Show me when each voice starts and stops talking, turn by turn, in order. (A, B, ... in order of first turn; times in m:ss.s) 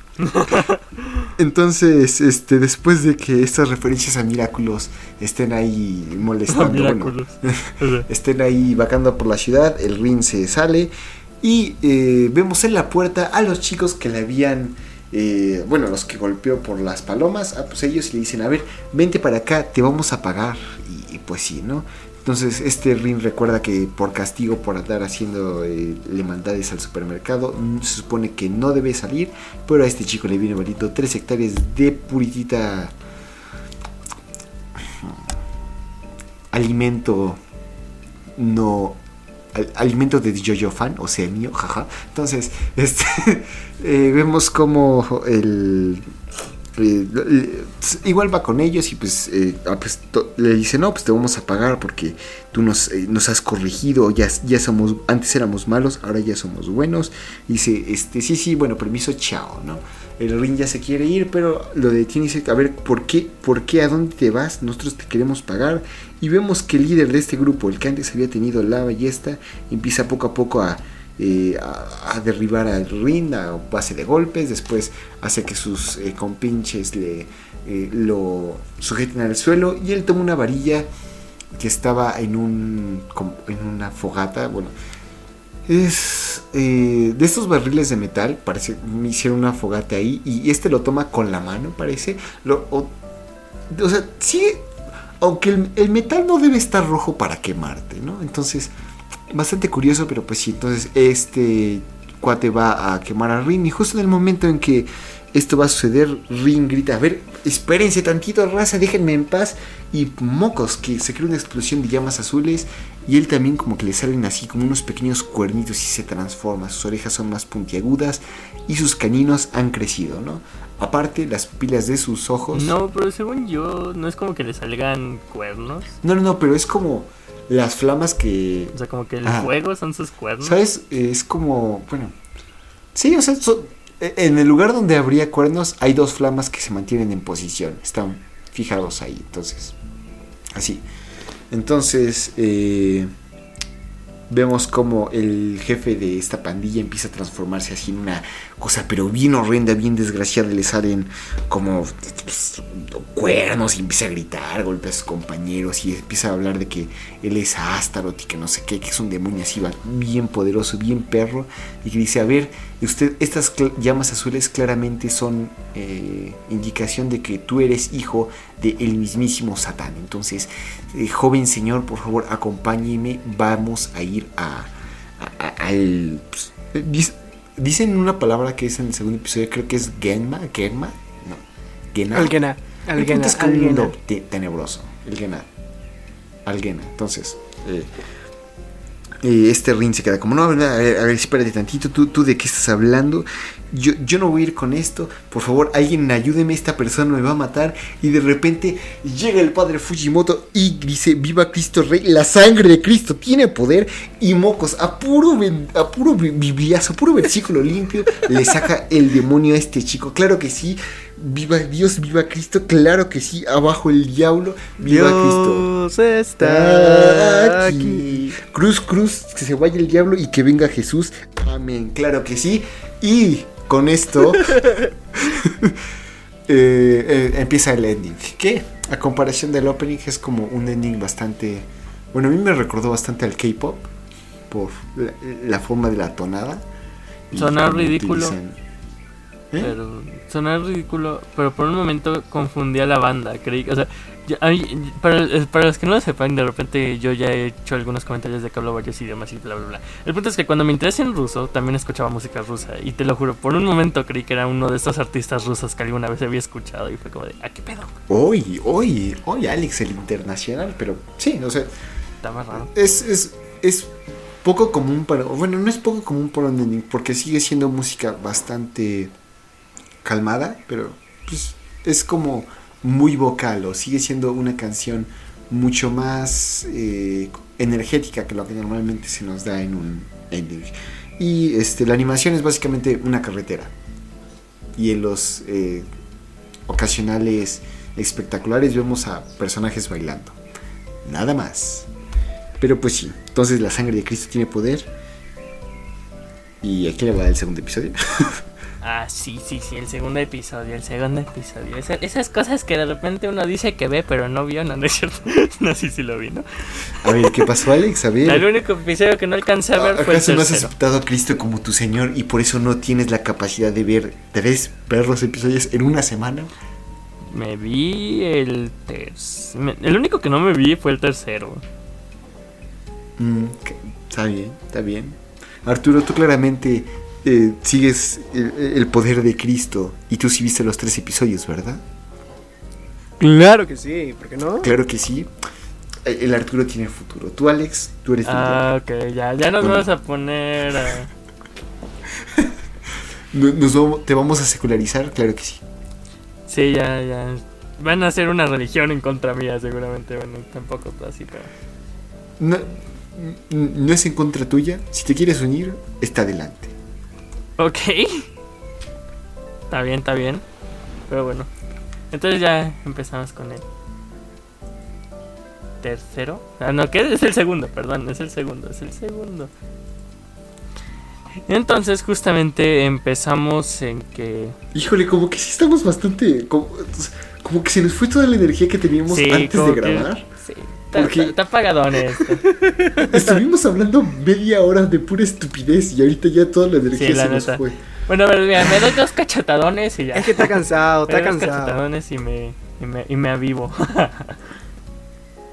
0:00.2-0:01.3 A
0:01.4-0:33.0 B
0:06.5-0:08.1 A
0:34.8-0:35.2 B
0:36.5-0:37.4 B
0:38.4-0:39.0 B
0:39.5-0:46.0 B
0:46.8-1:20.9 B
1:21.6-1:24.7 B
1:25.7-1:32.9 B
1:33.7-1:34.6 B
1:35.2-1:38.7 B
1:39.3-2:02.8 B
2:02.5-2:05.9 A
2:06.0-2:09.5 B
2:08.7-2:10.6 A
2:10.4-2:12.2 B
2:13.0-2:19.8 B
2:20.6-2:20.8 B
2:21.5-2:23.1 B
2:24.3-3:02.4 B
3:02.1-3:03.9 C
3:03.0-3:05.5 B
3:06.5-3:07.9 B
3:09.2-3:35.7 B
3:34.8-3:38.4 C
3:36.4-3:45.8 B
3:46.5-3:53.9 B
3:54.5-3:56.7 B
3:57.3-3:58.6 B
3:57.3-3:58.4 A
3:59.6-4:17.9 A
4:18.1-4:21.7 B
4:22.2-4:22.7 A
4:22.5-4:29.1 B
4:30.0-4:43.7 B
4:44.8-4:45.9 B
4:46.7-4:50.4 B
4:51.0-4:51.9 B
4:52.6-4:54.9 B
4:56.6-4:58.4 B
4:58.8-5:07.4 A
5:07.0-5:08.5 B
5:08.2-5:10.7 A
5:09.8-5:16.5 B
5:17.3-5:21.6 A
5:23.2-5:31.8 B
5:33.2-5:34.7 C
5:34.6-5:35.3 B
5:36.0-5:38.6 B
5:38.2-5:41.1 A
5:39.6-5:39.9 B
5:43.3-5:45.6 B
5:46.5-5:51.5 A
5:52.4-5:56.7 B
5:57.6-5:58.3 A
5:59.7-6:00.4 A
6:01.1-6:01.5 A
6:02.1-6:03.6 A
6:05.8-6:09.5 A
6:11.5-6:14.6 A
6:14.7-6:20.2 B
6:19.1-6:22.4 A
6:20.9-6:21.4 B
6:22.5-6:23.2 C
6:23.0-6:27.8 B
6:27.0-6:34.4 A
6:30.2-6:31.8 C